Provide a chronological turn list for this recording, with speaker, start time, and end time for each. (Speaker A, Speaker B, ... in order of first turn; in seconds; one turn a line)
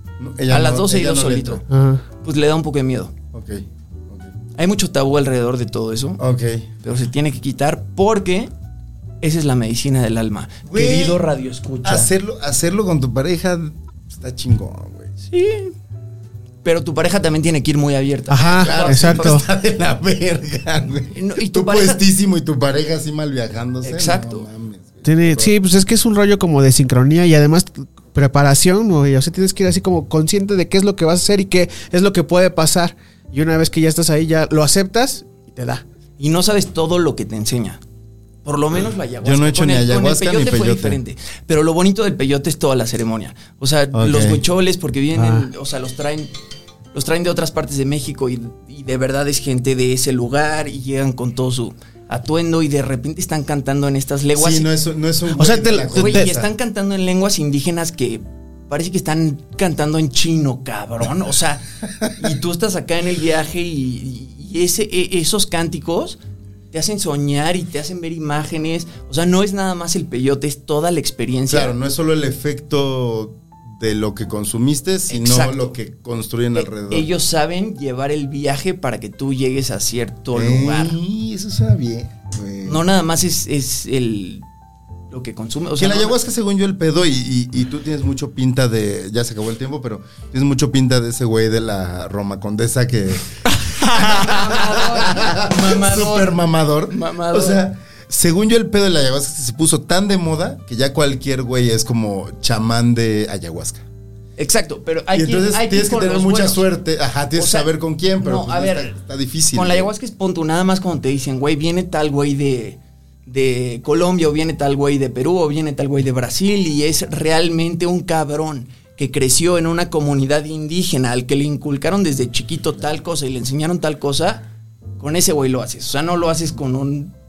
Speaker A: 0.2-1.6
Speaker B: 0.5-1.6
Speaker C: 1.7-2.0
Speaker B: 2.2-3.1
Speaker A: 3.3-4.3
Speaker B: 4.5-6.2
Speaker A: 6.2-6.7
Speaker B: 6.8-8.5
Speaker B: 9.2-12.1
Speaker A: 10.7-11.2
Speaker A: 11.8-15.1
Speaker B: 15.2-15.7
Speaker B: 16.6-19.4
Speaker C: 18.3-19.4
Speaker A: 18.4-25.6
Speaker B: 21.1-22.0
Speaker B: 23.8-24.4
Speaker C: 25.0-35.8
Speaker B: 36.2-37.8
Speaker B: 38.4-46.3
Speaker A: 39.2-41.0
Speaker A: 43.9-44.4
Speaker C: 45.1-45.5
Speaker B: 46.9-54.7
Speaker A: 54.3-56.5
Speaker C: 55.3-56.3
Speaker B: 55.9-61.6
Speaker B: 62.1-66.2
Speaker B: 66.7-71.7
Speaker A: 71.5-77.1
Speaker B: 75.1-75.7
Speaker B: 76.5-81.0
Speaker A: 80.3-82.8
Speaker B: 82.6-84.4
Speaker B: 85.1-86.2
Speaker A: 85.8-103.8
Speaker B: 93.9-96.3
Speaker B: 96.9-97.6
Speaker B: 104.4-106.7
Speaker A: 105.1-109.9
Speaker B: 107.3-108.9
Speaker B: 109.5-127.1